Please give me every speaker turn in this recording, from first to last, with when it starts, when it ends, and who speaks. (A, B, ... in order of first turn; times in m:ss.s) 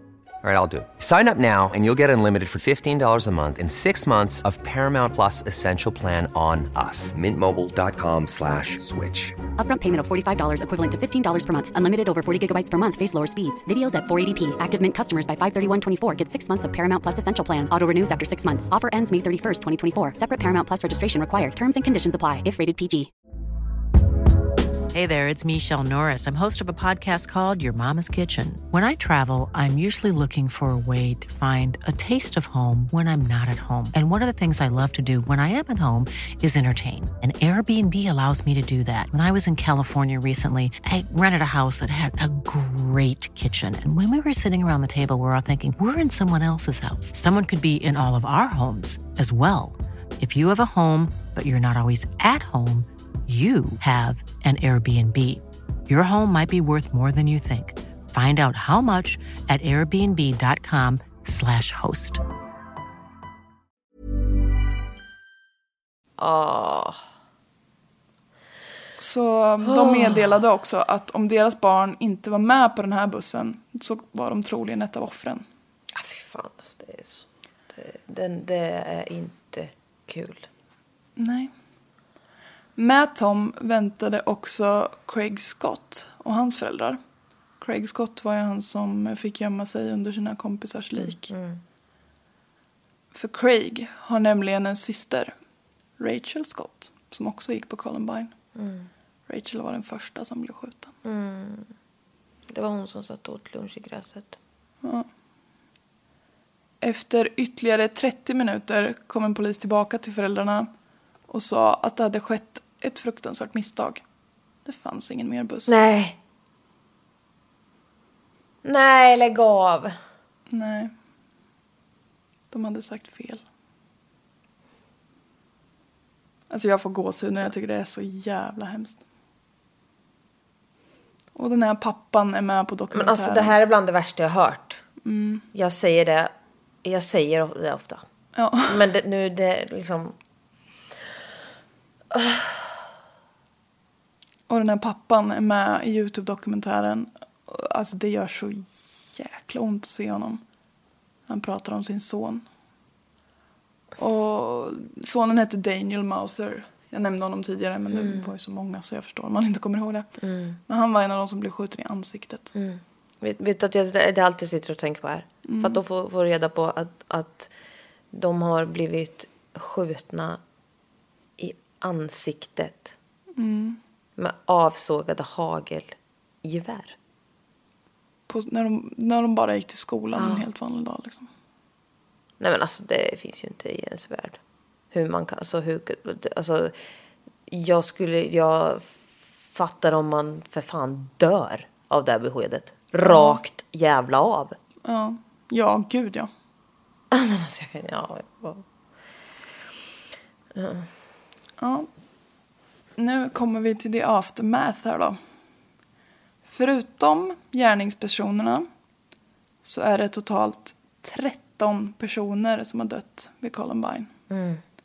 0:00.4-0:09.4 A
0:09.6-0:23.1 B
0:24.9-1:02.2 C
1:06.2-1:07.0 D
1:09.0-1:15.4 E
1:09.7-1:10.2 D
1:15.9-1:20.5 D
1:21.2-1:21.5 E
1:22.8-1:27.0 E
1:27.6-1:31.3 E
1:31.0-1:31.6 D
1:33.1-1:35.3 E
1:36.0-1:38.3 E
1:38.6-1:38.9 D
1:39.3-1:40.9 E
1:41.0-1:41.7 D
1:42.5-1:44.4 D
1:46.8-1:50.7 E
1:51.3-1:54.0 E
1:54.7-1:55.8 E
1:55.7-1:56.2 D
1:58.6-2:00.0 D
2:00.5-2:00.9 E
2:02.5-2:03.4 E
2:06.5-2:09.0 E
2:11.4-2:13.6 E
2:12.9-2:14.8 D
2:15.0-2:15.5 E
2:15.5-2:16.3 D
2:16.8-2:18.0 D
2:18.4-2:18.8 E
2:18.7-2:20.2 D
2:22.1-2:22.6 D
2:24.5-2:30.4 E
2:31.3-2:32.4 E
2:34.0-2:40.1 E
2:37.9-2:38.3 D
2:40.2-2:40.6 D
2:40.7-2:42.5 E
2:42.6-2:47.5 D
2:45.5-2:45.8 E
2:48.1-2:50.4 D
2:51.4-2:52.9 D
2:53.4-2:53.8 E
2:54.2-2:57.0 D
2:58.3-3:01.3 E
3:00.2-3:00.5 D
3:02.4-3:04.4 D
3:04.9-3:06.9 D
3:07.5-3:14.6 D
3:13.0-3:13.4 E
3:14.8-3:16.3 E
3:17.1-3:18.6 D
3:20.6-3:20.9 D
3:21.6-3:21.9 E
3:23.0-3:25.2 E
3:26.4-3:28.7 E
3:29.6-3:34.1 E
3:34.3-3:34.6 D